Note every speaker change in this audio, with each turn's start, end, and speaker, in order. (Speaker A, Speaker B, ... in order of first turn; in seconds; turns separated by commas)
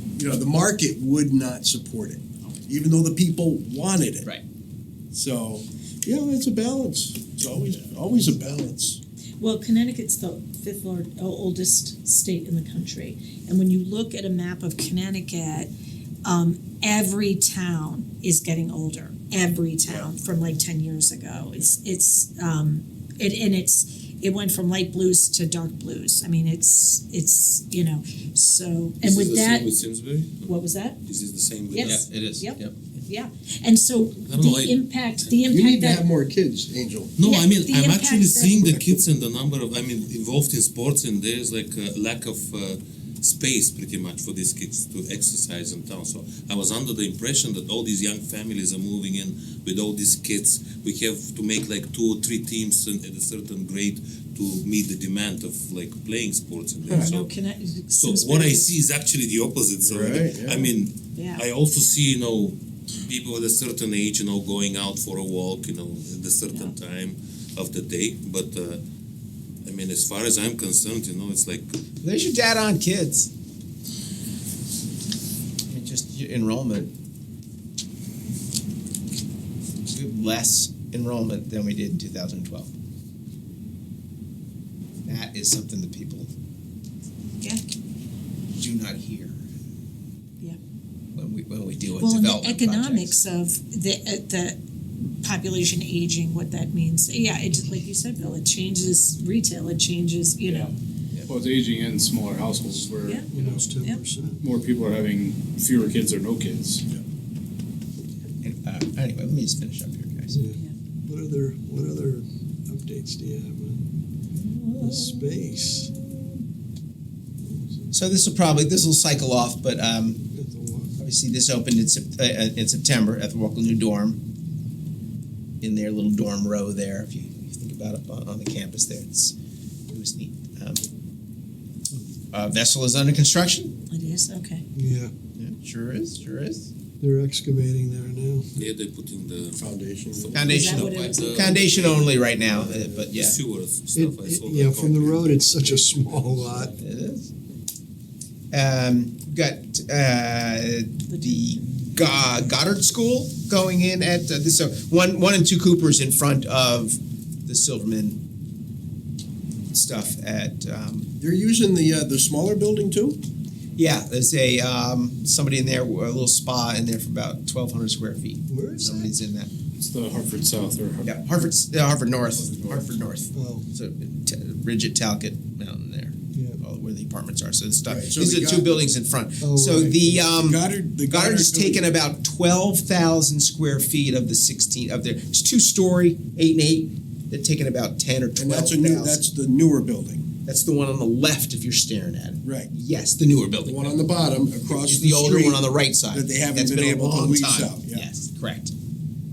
Speaker A: 0.1-4.3, Speaker A: 5.1-9.0, Speaker B: 9.4-15.7, Speaker B: 16.2-29.7, Speaker A: 19.9-20.1, Speaker C: 29.0-32.1, Speaker B: 30.4-31.0, Speaker B: 31.7-32.5, Speaker D: 31.8-33.0, Speaker B: 33.1-36.0, Speaker C: 34.2-35.5, Speaker A: 35.5-37.1, Speaker C: 37.2-57.4, Speaker B: 37.2-38.6, Speaker A: 56.9-57.1, Speaker B: 56.9-58.7, Speaker C: 57.9-68.8, Speaker A: 59.8-60.7, Speaker B: 61.1-61.4, Speaker C: 69.6-71.8, Speaker D: 72.0-73.3, Speaker D: 75.7-76.9, Speaker D: 79.9-82.7, Speaker D: 85.0-86.3, Speaker D: 88.5-89.4, Speaker D: 91.1-93.2, Speaker B: 92.0-94.6, Speaker B: 95.2-100.7, Speaker E: 100.4-100.7, Speaker E: 101.3-103.7, Speaker F: 103.3-104.4, Speaker E: 104.4-106.8, Speaker D: 108.4-110.4, Speaker F: 110.3-113.9, Speaker D: 114.3-116.4, Speaker F: 114.8-115.9, Speaker F: 117.4-117.9, Speaker D: 117.9-120.2, Speaker F: 120.2-121.0, Speaker D: 121.0-124.2, Speaker D: 125.6-129.3, Speaker D: 129.9-130.9, Speaker D: 131.9-133.7, Speaker B: 133.9-134.6, Speaker F: 134.7-135.1, Speaker D: 135.3-136.7, Speaker F: 137.0-138.5, Speaker C: 138.6-146.7, Speaker A: 139.5-140.5, Speaker D: 140.3-143.4, Speaker B: 140.5-141.4, Speaker A: 142.7-143.0, Speaker F: 143.9-146.8, Speaker D: 146.6-147.3, Speaker D: 148.5-158.2, Speaker B: 151.1-151.5, Speaker D: 159.7-161.1, Speaker A: 161.2-163.2, Speaker D: 163.8-169.5, Speaker F: 168.5-169.1, Speaker E: 169.8-171.1, Speaker D: 171.0-189.2, Speaker A: 172.3-172.8, Speaker F: 173.3-173.7, Speaker F: 176.3-176.6, Speaker A: 177.9-178.8, Speaker F: 179.4-180.2, Speaker A: 180.3-181.9, Speaker A: 188.3-190.3, Speaker D: 190.4-194.0, Speaker A: 192.4-192.7, Speaker A: 193.6-198.1, Speaker D: 194.7-198.7